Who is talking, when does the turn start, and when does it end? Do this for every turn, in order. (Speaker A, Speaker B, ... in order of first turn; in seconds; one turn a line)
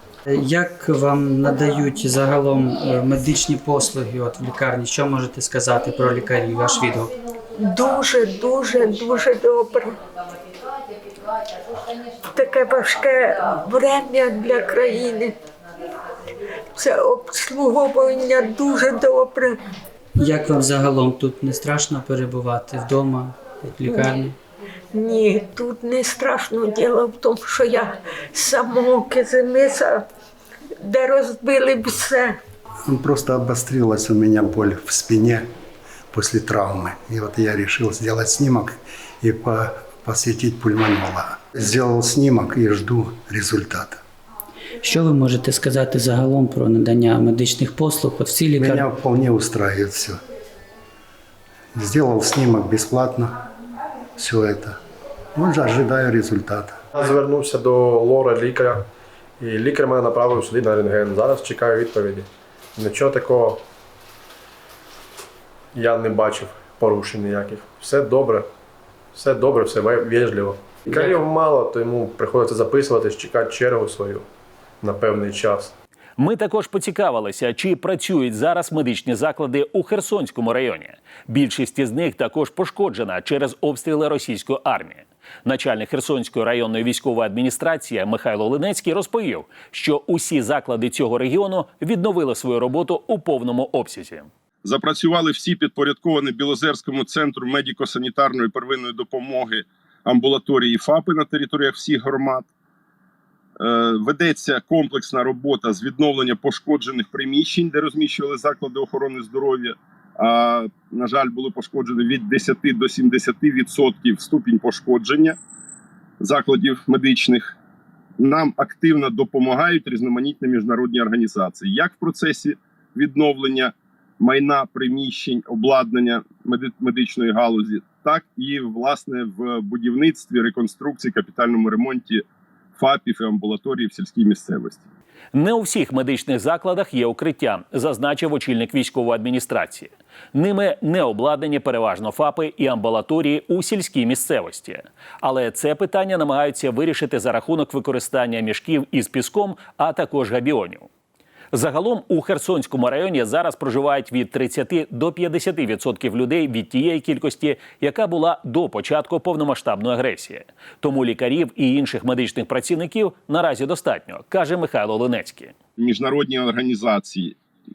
Speaker A: 0.3-7.1
Speaker B: 7.5-10.0
Speaker B: 12.3-15.3
Speaker B: 16.8-19.6
Speaker A: 20.2-24.4
Speaker B: 23.9-24.1
Speaker B: 24.9-30.0
Speaker B: 30.8-32.4
Speaker C: 32.9-35.5
Speaker C: 36.1-44.0
Speaker A: 44.8-48.9
Speaker C: 48.5-50.2
Speaker C: 51.8-53.4
Speaker C: 54.2-54.8
Speaker C: 55.4-56.8
Speaker D: 57.0-58.9
Speaker D: 59.4-63.6
Speaker D: 65.7-68.5
Speaker D: 69.1-74.3
Speaker D: 74.8-75.7
Speaker E: 76.2-94.3
Speaker F: 94.6-102.5
Speaker F: 103.6-115.4
Speaker F: 116.2-117.5
Speaker F: 118.2-132.2
Speaker F: 132.8-134.8
Speaker E: 135.3-150.9
Speaker E: 151.5-165.5
Speaker F: 165.8-167.4